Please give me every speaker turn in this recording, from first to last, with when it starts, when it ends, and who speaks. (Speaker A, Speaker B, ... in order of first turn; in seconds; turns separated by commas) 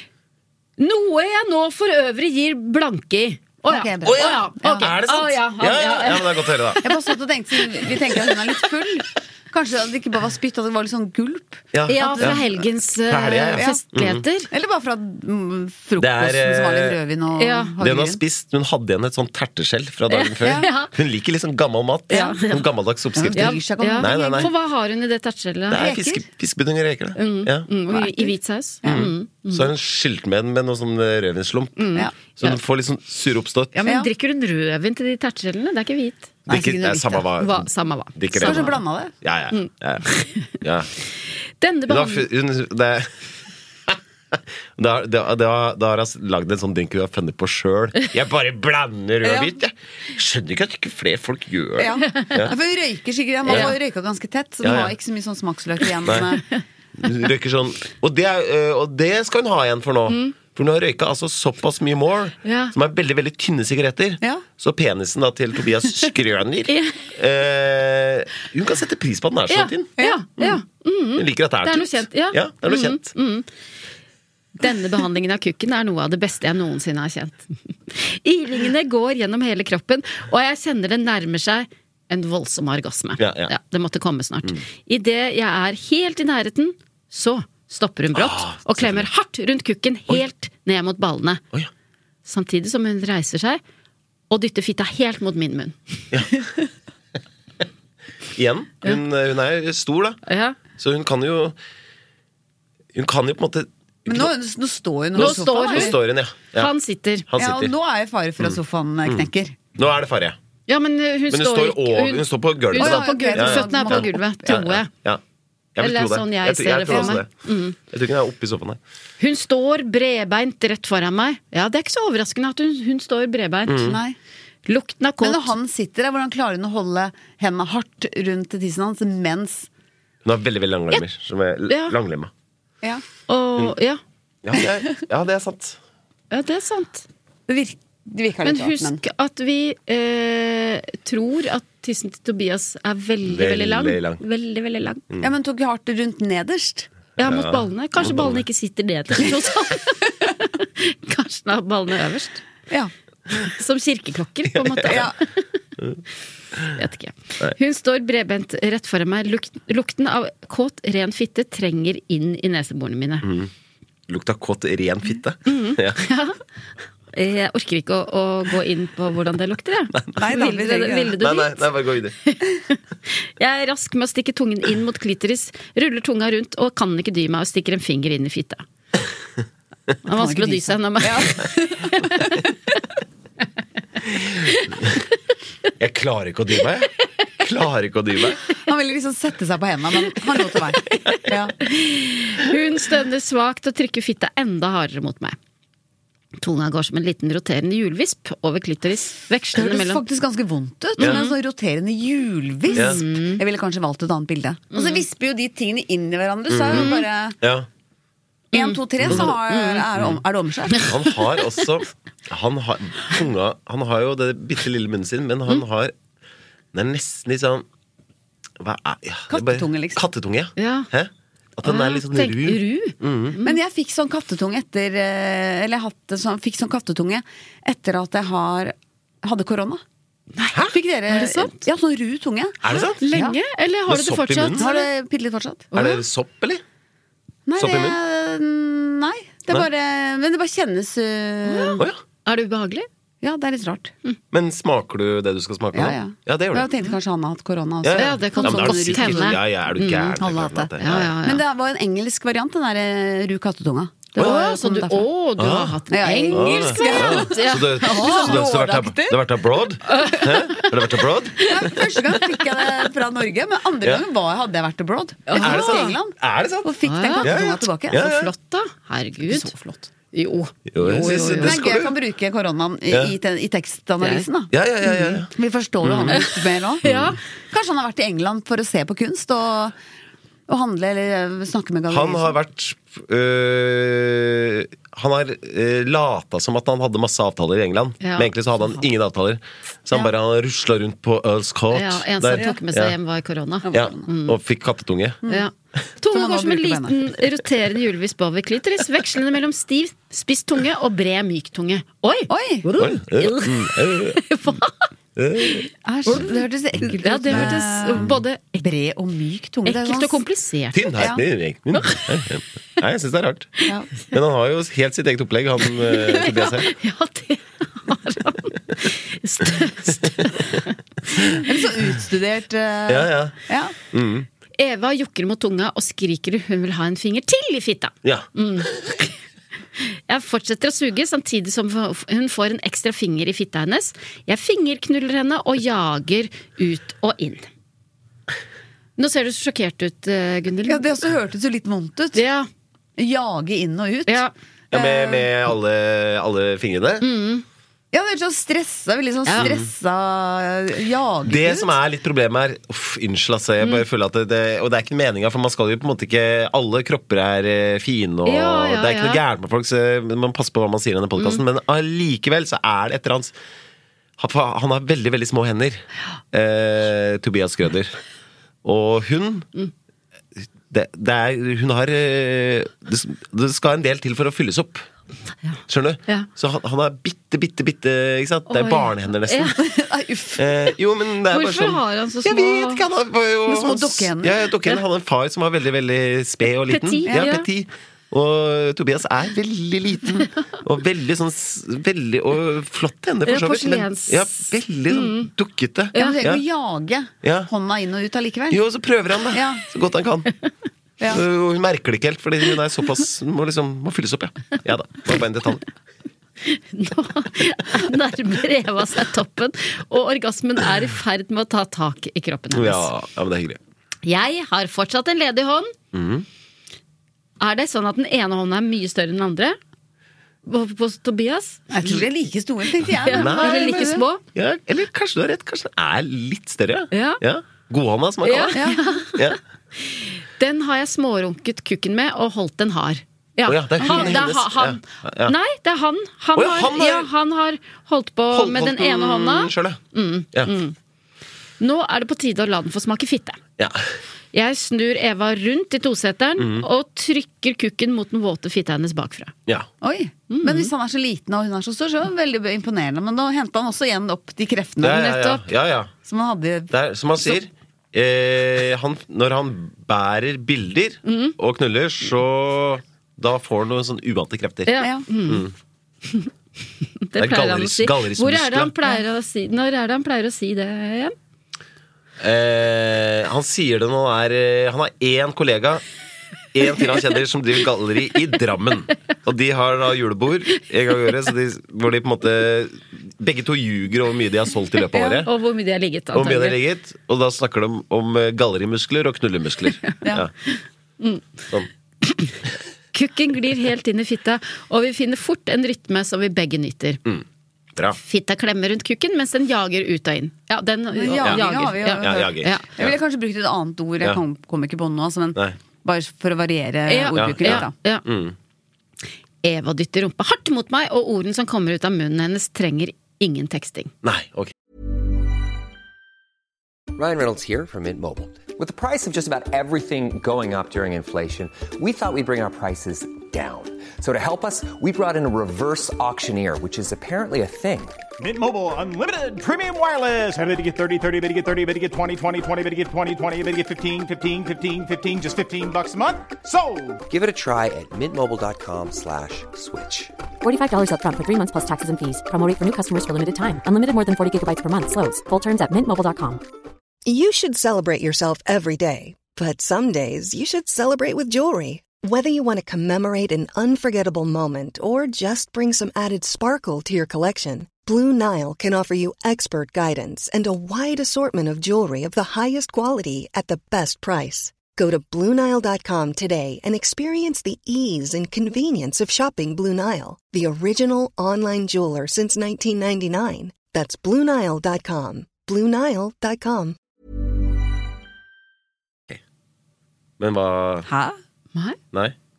Speaker A: 0.8-6.9, Speaker B: 3.6-4.9, Speaker C: 4.0-6.8, Speaker B: 6.8-12.6, Speaker C: 11.7-12.4, Speaker A: 11.8-14.5, Speaker C: 13.1-14.2, Speaker B: 14.5-18.2, Speaker C: 16.0-17.0, Speaker A: 17.4-17.7, Speaker C: 17.8-24.5, Speaker A: 20.1-20.9, Speaker B: 20.4-20.7, Speaker A: 22.1-22.6, Speaker B: 23.1-24.5, Speaker A: 23.3-25.8, Speaker C: 25.7-27.7, Speaker B: 25.7-26.2, Speaker A: 27.1-29.7, Speaker B: 27.9-28.3, Speaker B: 28.8-29.1, Speaker C: 28.8-33.8, Speaker A: 31.8-32.6, Speaker A: 33.7-36.4, Speaker C: 36.5-40.9, Speaker B: 36.5-37.2, Speaker A: 37.4-38.8, Speaker B: 38.4-39.1, Speaker A: 39.5-40.5, Speaker A: 41.6-42.2, Speaker C: 41.9-43.1, Speaker C: 43.9-52.5, Speaker B: 49.2-49.5, Speaker B: 51.8-56.4, Speaker C: 53.5-53.7, Speaker C: 54.6-54.9, Speaker C: 56.0-56.3, Speaker C: 57.0-69.9, Speaker A: 60.1-60.3, Speaker A: 62.4-62.7, Speaker A: 66.7-67.0, Speaker A: 69.5-73.5, Speaker B: 70.0-70.5, Speaker C: 71.2-73.1, Speaker A: 74.6-91.4, Speaker C: 83.2-83.5, Speaker C: 88.1-89.1, Speaker A: 92.2-93.6, Speaker A: 94.3-95.8, Speaker C: 96.1-96.4, Speaker C: 98.3-100.2, Speaker A: 100.2-100.6, Speaker C: 100.8-101.6, Speaker C: 102.9-104.3, Speaker B: 104.1-106.0, Speaker A: 105.1-107.3, Speaker C: 105.2-106.7, Speaker C: 107.3-107.7, Speaker B: 107.3-109.5, Speaker C: 108.4-110.4, Speaker A: 110.7-114.9, Speaker C: 111.3-115.2, Speaker B: 112.7-114.6, Speaker C: 115.8-118.8, Speaker A: 115.8-117.8, Speaker B: 116.9-117.2, Speaker A: 119.2-124.0, Speaker C: 123.7-124.0, Speaker B: 123.9-124.2, Speaker A: 124.7-125.5, Speaker B: 125.2-129.7, Speaker C: 130.2-132.3, Speaker A: 131.7-131.9, Speaker A: 133.3-134.0, Speaker C: 134.4-135.8, Speaker A: 136.3-137.1, Speaker B: 137.5-139.0, Speaker A: 138.4-145.0, Speaker C: 143.2-144.2, Speaker B: 145.2-146.9, Speaker A: 147.2-152.4, Speaker C: 147.2-148.4, Speaker A: 153.3-155.4, Speaker C: 154.5-155.0, Speaker B: 154.8-155.2, Speaker A: 156.7-163.2, Speaker C: 163.2-163.5, Speaker C: 164.1-166.0, Speaker A: 165.5-166.4, Speaker A: 167.1-171.7, Speaker B: 170.2-171.2, Speaker C: 171.2-172.2, Speaker A: 172.2-178.6, Speaker A: 180.0-182.4, Speaker B: 180.1-182.4, Speaker C: 185.8-188.4, Speaker B: 188.7-191.5, Speaker A: 190.9-195.4, Speaker A: 196.4-200.0, Speaker B: 199.5-207.4, Speaker A: 201.0-201.3, Speaker A: 202.7-203.4, Speaker A: 204.7-205.0, Speaker C: 206.5-207.7, Speaker A: 206.7-207.0, Speaker A: 208.5-209.8, Speaker B: 208.5-210.9, Speaker C: 209.0-209.3, Speaker C: 210.8-215.9, Speaker C: 216.7-217.7, Speaker C: 218.6-223.4, Speaker B: 219.3-220.0, Speaker A: 220.6-220.9, Speaker A: 221.6-223.6, Speaker B: 223.4-229.8, Speaker B: 230.7-233.4, Speaker A: 231.1-231.6, Speaker C: 232.6-233.0, Speaker A: 232.7-234.9, Speaker C: 233.9-234.6, Speaker B: 234.6-235.7, Speaker A: 235.7-236.0, Speaker C: 235.7-236.6, Speaker B: 237.5-241.8, Speaker C: 237.6-238.0, Speaker A: 241.4-242.9, Speaker B: 243.2-243.9, Speaker C: 244.3-246.7, Speaker B: 245.7-249.4, Speaker C: 247.8-251.2, Speaker A: 247.9-250.2, Speaker B: 250.2-255.1, Speaker A: 250.8-251.4, Speaker A: 254.2-258.4, Speaker C: 254.2-254.4, Speaker C: 255.4-255.8, Speaker B: 255.9-259.2, Speaker C: 256.3-261.7, Speaker A: 259.9-260.7, Speaker B: 261.4-268.1, Speaker A: 265.3-265.9, Speaker C: 265.4-268.3, Speaker A: 266.8-267.3, Speaker A: 267.9-271.6, Speaker C: 270.7-271.9, Speaker B: 271.4-276.8, Speaker C: 274.5-275.3, Speaker C: 275.8-276.2, Speaker A: 276.8-277.2, Speaker C: 276.8-277.2, Speaker B: 277.5-279.7, Speaker B: 280.5-282.3, Speaker C: 281.9-292.9, Speaker A: 288.0-288.8, Speaker A: 291.7-294.4, Speaker B: 293.6-294.1, Speaker C: 293.7-295.2, Speaker A: 295.3-304.9, Speaker B: 296.1-297.0, Speaker B: 302.3-302.6, Speaker C: 302.8-304.2, Speaker C: 305.1-305.7, Speaker B: 305.8-310.2, Speaker A: 306.1-306.4, Speaker A: 307.0-308.6, Speaker C: 307.3-307.6, Speaker A: 309.6-311.0, Speaker C: 310.7-316.7, Speaker A: 311.8-312.0, Speaker A: 315.8-321.2, Speaker B: 321.4-323.7, Speaker C: 322.9-323.4, Speaker C: 323.9-324.3, Speaker A: 324.6-329.1, Speaker C: 328.0-329.0, Speaker A: 329.8-337.5, Speaker A: 339.0-340.9, Speaker B: 340.7-342.2, Speaker A: 342.1-342.5, Speaker B: 343.0-345.2, Speaker A: 344.1-344.3, Speaker C: 344.7-347.1, Speaker A: 347.0-347.4, Speaker B: 347.9-351.7, Speaker A: 349.2-349.5, Speaker C: 349.4-349.7, Speaker C: 351.2-363.4, Speaker A: 358.2-359.2, Speaker C: 364.2-368.0, Speaker C: 368.6-369.5, Speaker C: 370.7-374.9, Speaker A: 375.4-376.3, Speaker C: 375.7-379.6, Speaker A: 378.5-379.6, Speaker B: 379.6-380.5, Speaker C: 380.4-396.4, Speaker A: 381.3-382.8, Speaker B: 383.5-384.5, Speaker A: 386.7-387.4, Speaker A: 393.2-395.3, Speaker A: 395.9-396.2, Speaker B: 395.9-398.6, Speaker C: 397.2-397.5, Speaker C: 398.5-400.3, Speaker B: 399.3-399.6, Speaker C: 401.1-405.6, Speaker A: 406.4-412.9, Speaker C: 412.5-413.6, Speaker A: 414.0-415.7, Speaker C: 415.9-416.2, Speaker A: 417.4-419.6, Speaker A: 420.4-422.0, Speaker B: 421.7-424.0, Speaker A: 423.0-424.2, Speaker C: 423.1-429.4, Speaker A: 426.9-427.2, Speaker A: 428.2-440.7, Speaker B: 428.5-428.8, Speaker C: 433.4-435.3, Speaker B: 433.8-434.2, Speaker C: 436.3-437.1, Speaker C: 438.3-439.8, Speaker A: 441.6-443.4, Speaker C: 443.6-443.9, Speaker A: 444.3-449.3, Speaker C: 446.4-446.6, Speaker B: 449.8-455.1, Speaker A: 450.3-450.7, Speaker C: 454.8-455.9, Speaker A: 454.9-455.4, Speaker B: 456.1-456.7, Speaker C: 456.7-465.5, Speaker A: 461.0-461.4, Speaker A: 464.7-465.4, Speaker B: 464.8-465.1, Speaker A: 467.0-471.1, Speaker C: 467.2-468.7, Speaker C: 472.2-475.8, Speaker C: 476.5-485.3, Speaker B: 484.9-485.2, Speaker A: 485.2-486.6, Speaker C: 486.1-490.3, Speaker A: 490.5-491.3, Speaker A: 492.0-492.3, Speaker A: 492.9-497.0, Speaker A: 497.9-502.7, Speaker B: 500.9-507.7, Speaker C: 501.1-502.9, Speaker A: 506.9-508.1, Speaker C: 507.1-508.4, Speaker A: 509.4-513.9, Speaker C: 514.0-514.5, Speaker D: 516.9-528.0, Speaker E: 528.2-537.0, Speaker D: 537.1-540.1, Speaker F: 540.4-546.4, Speaker G: 547.0-576.8, Speaker C: 580.2-580.9, Speaker B: 580.9-581.2